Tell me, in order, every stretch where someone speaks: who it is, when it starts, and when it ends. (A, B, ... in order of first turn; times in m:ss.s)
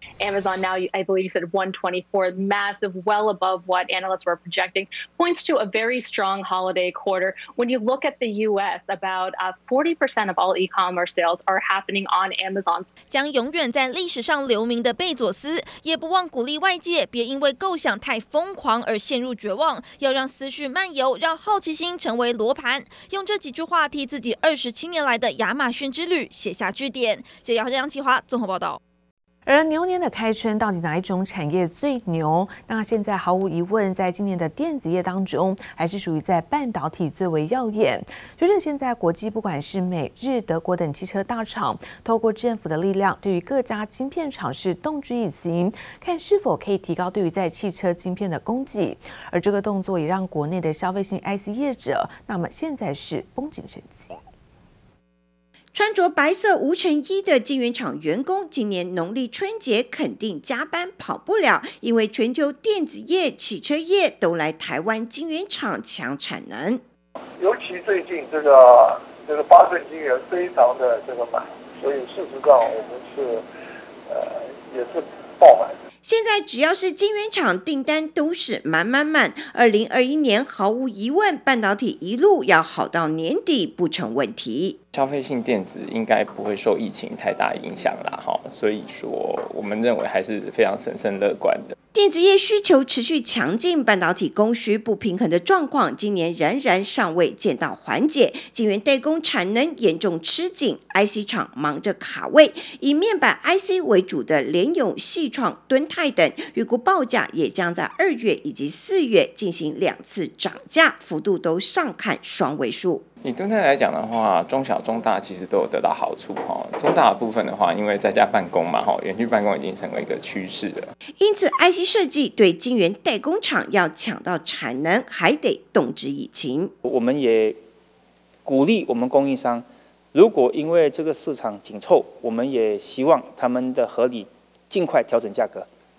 0:00.2-0:12.9 A
0:13.1-0:28.8 B
0:29.4-0:54.2 C
0:55.7-1:06.8 D
1:07.4-1:13.4 E
1:14.1-1:15.7 E
1:16.0-1:24.8 D
1:24.9-1:31.6 F
1:31.9-1:53.0 D
1:53.2-2:00.7 F
2:01.2-2:06.7 D
2:06.8-2:07.6 G
2:08.4-2:15.6 G